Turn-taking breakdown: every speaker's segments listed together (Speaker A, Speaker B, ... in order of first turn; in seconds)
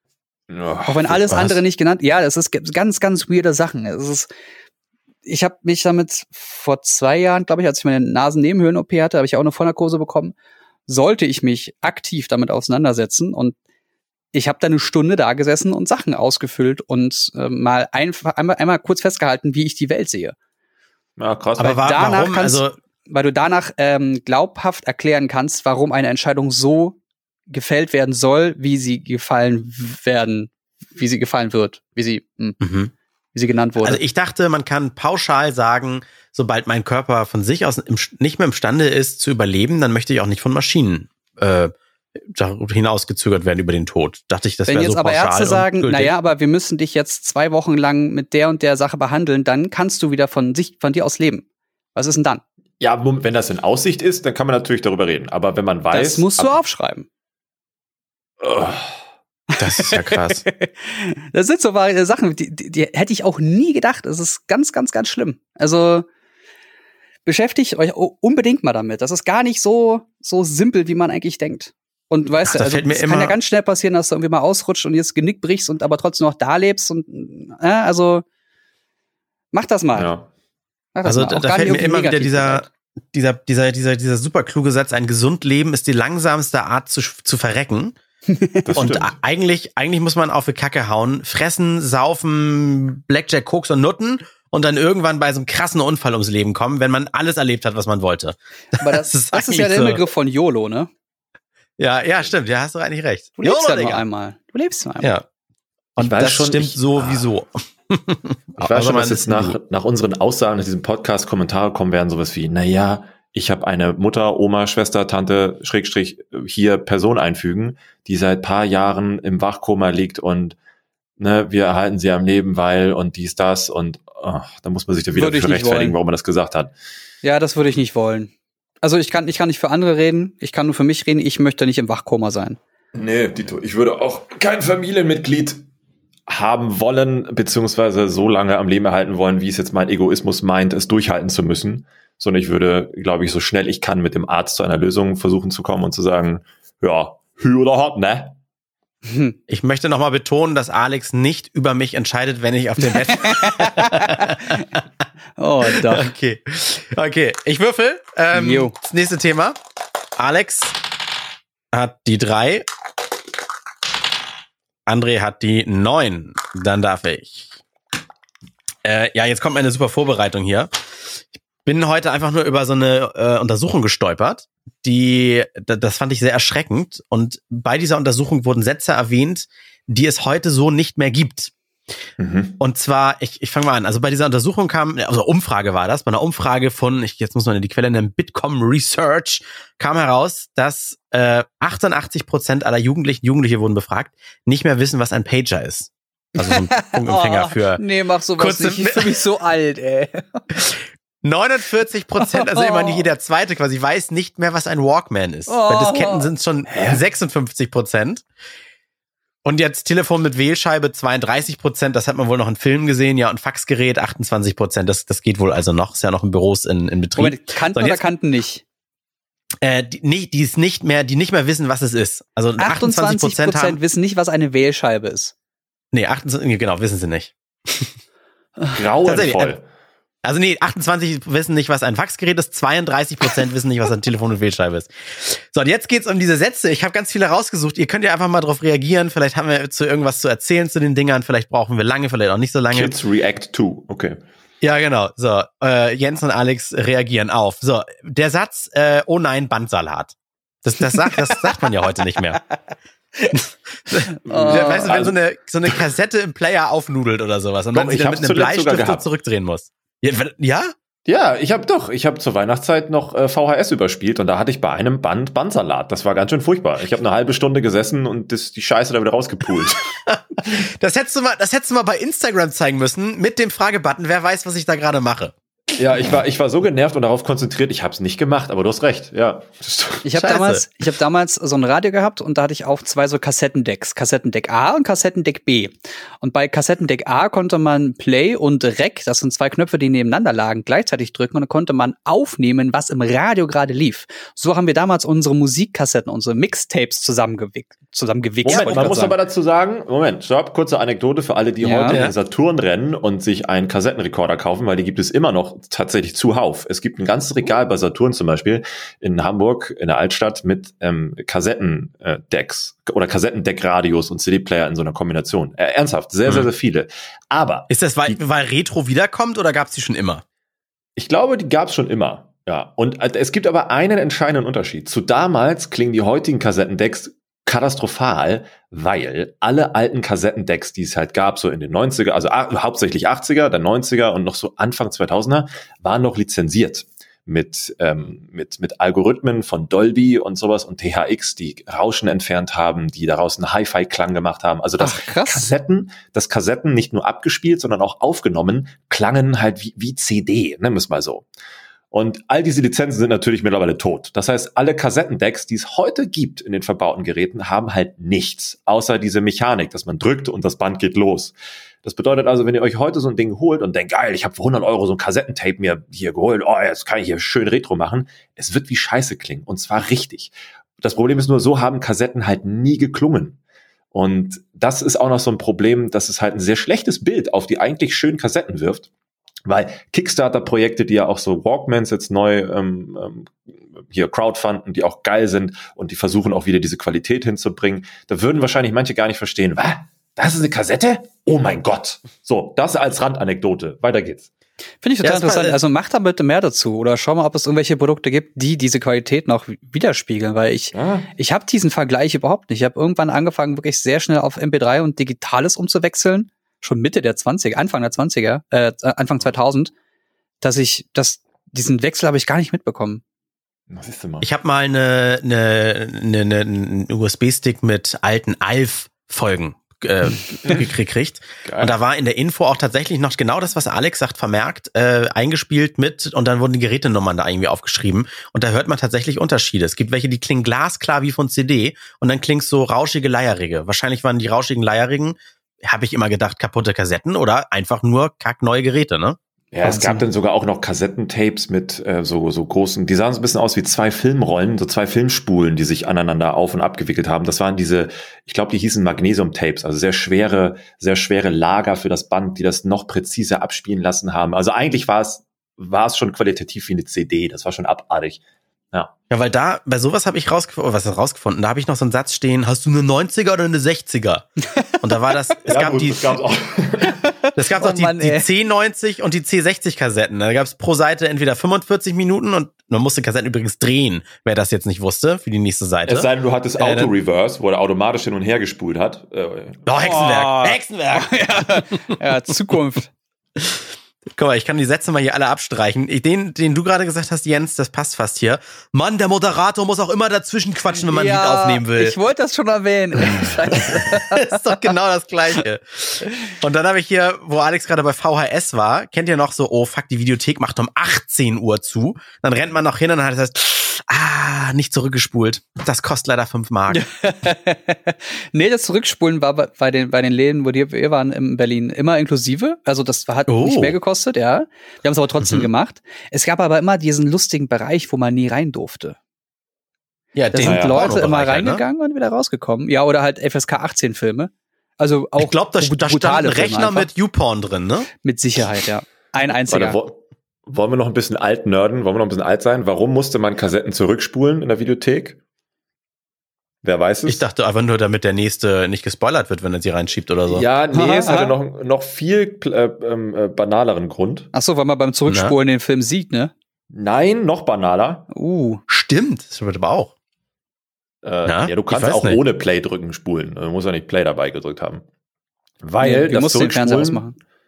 Speaker A: 0.5-1.2, 21.2-21.9, 52.8-56.5, 58.4-59.0, 79.9-80.3, 88.6-89.1, 106.0-107.3, 108.6-120.5, 121.2-126.7, 132.9-135.6, 136.3-148.4, 182.2-182.6, 206.7-207.0, 228.7-229.6, 242.7-244.2, 254.3-255.2, 257.7-259.0, 261.1-269.9, 275.7-280.1, 298.4-318.2, 321.0-351.3, 351.9-373.4, 373.9-378.9, 379.4-383.3, 383.9-394.3, 400.7-401.1, 413.7-414.3, 421.4-421.8, 439.5-458.2, 465.4-467.0, 475.9-479.6, 520.4-520.9, 529.5-535.2, 536.6-537.2, 540.3-544.3, 546.7-548.1, 551.0-554.8, 555.6-557.0
Speaker B: 0.8-4.3, 5.2-10.3, 10.9-13.5, 14.3-20.3, 21.8-27.0, 27.5-32.6, 33.3-34.0, 44.7-52.4, 55.9-57.1, 59.8-66.1, 67.2-78.2, 79.5-80.1, 80.9-82.7, 88.3-88.6, 98.8-100.9, 103.4-105.1, 125.1-126.0, 127.2-128.3, 128.8-132.6, 149.0-149.3, 152.8-154.4, 155.4-156.1, 158.3-158.7, 196.4-200.4, 202.2-203.0, 205.5-206.3, 217.2-218.6, 222.6-225.3, 254.2-255.1, 280.0-299.2, 301.6-302.0, 344.8-345.5, 394.8-409.7, 410.4-413.0, 439.6-440.0, 467.1-468.3, 479.8-482.9, 490.9-494.7, 506.7-519.0, 520.3-526.9, 528.0-529.8, 540.7-541.3, 544.3-546.3, 548.1-548.6, 555.8-557.1
Speaker C: 1.3-1.6, 21.6-22.8, 32.6-32.9, 33.8-46.1, 59.6-60.4, 72.4-73.3, 81.0-88.0, 88.7-100.0, 101.8-104.0, 106.0-109.5, 149.5-154.8, 155.7-159.6, 160.2-160.8, 161.7-162.7, 164.8-167.6, 168.8-181.5, 182.6-197.8, 198.4-199.2, 200.5-208.2, 209.4-218.0, 219.6-223.8, 225.9-227.9, 229.1-229.5, 230.2-242.9, 244.6-252.4, 253.3-260.7, 270.1-275.3, 280.2-280.6, 317.7-320.2, 395.0-395.6, 414.2-439.2, 459.1-464.3, 464.8-466.1, 467.3-476.9, 479.6-481.6, 483.4-491.9, 493.7-506.9, 513.3-513.7, 515.2-515.5, 520.1-521.6, 525.2-527.9, 537.0-540.4, 545.1-545.4, 548.7-549.9, 551.2-552.2